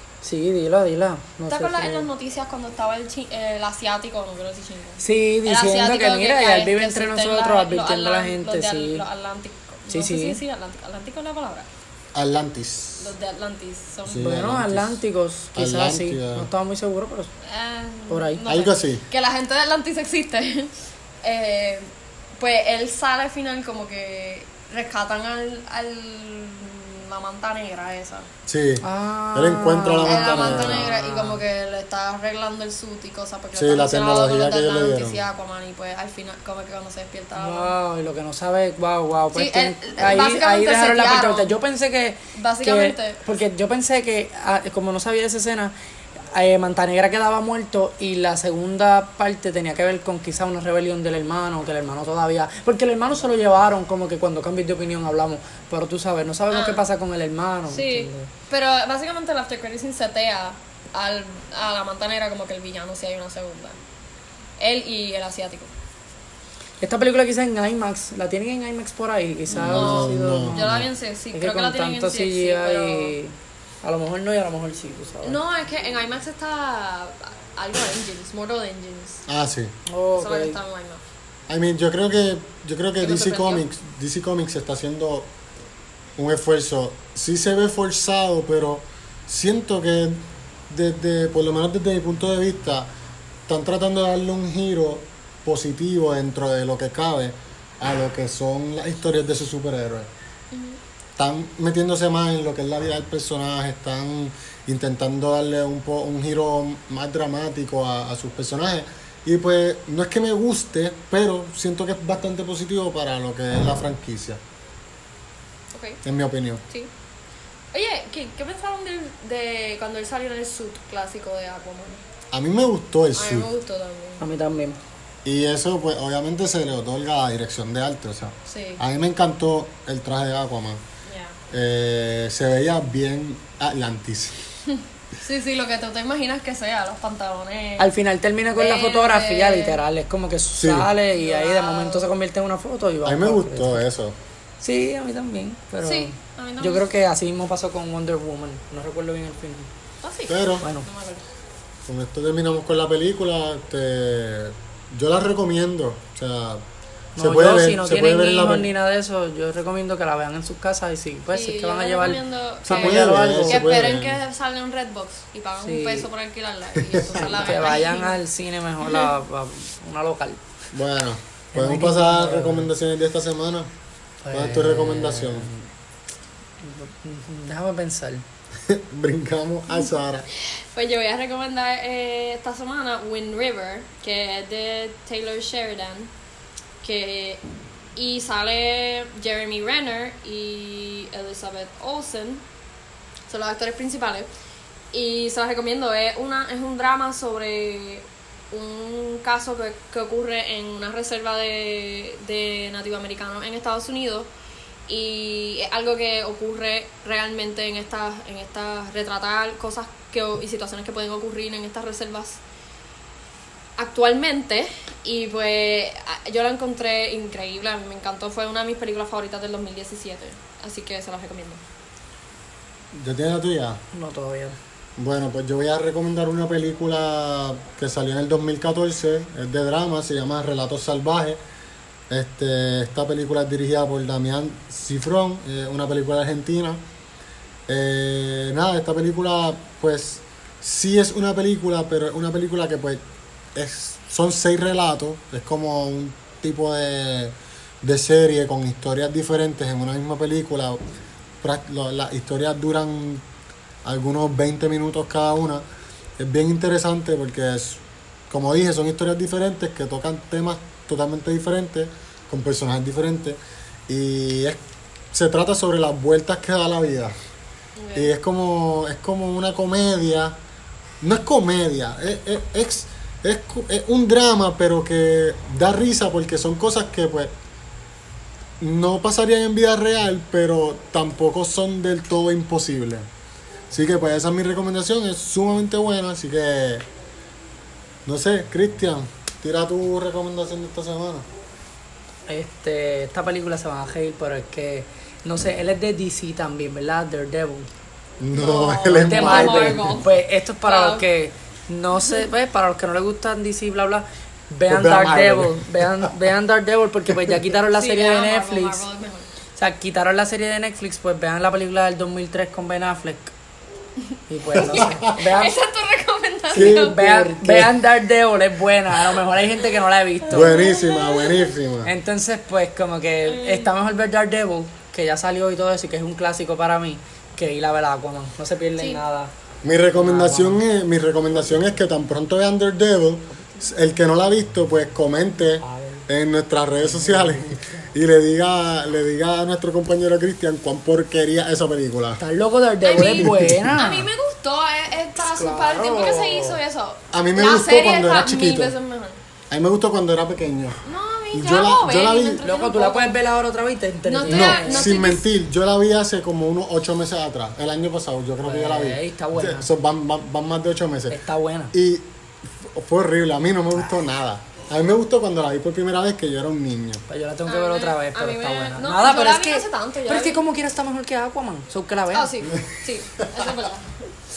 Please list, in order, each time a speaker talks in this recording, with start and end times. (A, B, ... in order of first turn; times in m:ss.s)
0:00.2-0:02.1 A
0:01.5-0:11.7 B
0:05.0-0:09.0 A
0:09.9-0:10.4 A
0:12.2-0:13.2 C
0:13.0-0:14.3 B
0:14.0-0:15.0 C
0:14.2-0:17.3 A
0:15.6-0:16.5 C
0:17.4-0:28.3 B
0:18.1-0:18.5 A
0:18.4-0:19.0 C
0:28.5-0:30.9 C
0:28.8-0:31.4 A
0:30.0-0:37.7 B
0:33.5-0:35.2 C
0:37.4-0:45.7 A
0:39.3-0:41.5 B
0:42.4-0:43.2 B
0:46.3-0:58.3 A
0:56.5-0:56.8 B
0:57.7-1:03.8 B
1:04.6-1:05.7 B
1:06.8-1:10.8 A
1:09.5-1:13.1 B
1:09.5-1:10.9 C
1:11.3-1:15.4 A
1:15.2-1:19.2 B
1:19.3-1:19.7 C
1:19.9-1:20.6 A
1:20.2-1:21.0 B
1:21.5-1:25.3 C
1:23.0-1:23.6 B
1:26.2-1:32.9 C
1:33.5-1:40.1 C
1:40.5-1:40.8 B
1:41.2-1:54.4 C
1:55.7-1:56.0 B
1:56.0-1:56.6 C
1:57.7-2:02.0 B
2:02.3-2:03.5 C
2:03.2-2:04.2 B
2:04.2-2:04.8 A
2:05.2-2:10.8 C
2:08.5-2:08.8 B
2:11.1-2:11.4 B
2:11.5-2:14.4 C
2:14.7-2:17.9 B
2:17.8-2:23.8 A
2:18.6-2:19.8 B
2:20.6-2:20.9 C
2:21.1-2:22.1 B
2:23.0-2:24.2 C
2:24.6-2:29.7 A
2:25.8-2:27.0 B
2:30.0-2:31.2 B
2:30.3-2:30.6 C
2:30.6-2:30.9 A
2:31.9-2:36.6 C
2:37.2-2:43.7 A
2:37.2-2:38.7 C
2:41.3-2:48.2 B
2:42.6-2:44.2 C
2:45.6-2:46.1 A
2:46.8-2:47.6 C
2:47.1-2:50.5 A
2:48.8-2:49.1 B
2:50.7-2:53.7 C
2:51.5-2:52.7 A
2:54.2-2:55.7 A
2:54.3-2:55.5 C
2:56.6-2:58.2 A
2:58.6-3:00.3 C
3:00.4-3:06.1 B
3:06.8-3:07.4 B
3:08.0-3:12.4 B
3:13.3-3:14.3 B
3:14.9-3:24.3 B
3:24.9-3:32.4 B
3:33.8-3:41.6 B
3:42.9-3:43.8 C
3:43.9-3:44.6 A
3:45.0-3:51.4 C
3:52.1-3:56.8 C
3:57.7-4:03.0 C
4:03.6-4:10.8 C
4:11.4-4:13.2 C
4:13.8-4:15.6 C
4:16.2-4:24.6 C
4:25.1-4:27.1 C
4:27.8-4:28.1 B
4:28.0-4:30.4 C
4:31.0-4:37.3 C
4:38.6-4:43.1 C
4:43.7-4:46.9 C
4:48.0-4:51.3 C
4:52.3-4:57.7 A
4:58.2-5:00.0 C
4:58.3-5:01.1 B
4:59.0-5:08.8 A
5:02.0-5:02.2 B
5:04.7-5:06.1 C
5:07.7-5:09.3 B
5:09.6-5:13.3 A
5:14.3-5:15.6 A
5:14.5-5:17.0 B
5:14.8-5:15.1 C
5:16.5-5:20.6 A
5:16.5-5:17.8 C
5:20.3-5:21.9 C
5:20.3-5:21.5 B
5:21.8-5:29.3 A
5:23.3-5:23.7 B
5:29.6-5:42.2 C
5:29.9-5:30.6 A
5:33.4-5:33.6 A
5:35.6-5:36.1 A
5:36.8-5:37.9 A
5:42.2-5:44.1 A
5:42.8-5:49.2 B
5:43.0-5:43.7 C
5:45.2-5:46.6 A
5:47.1-5:48.8 C
5:49.5-5:52.4 C
5:50.8-5:53.2 B
5:52.4-5:54.9 A
5:54.1-5:55.2 B
5:54.3-6:01.2 C
5:58.4-5:59.7 A
6:01.1-6:01.8 A
6:01.7-6:07.0 C
6:07.1-6:12.3 A
6:07.5-6:10.4 B
6:12.1-6:13.9 B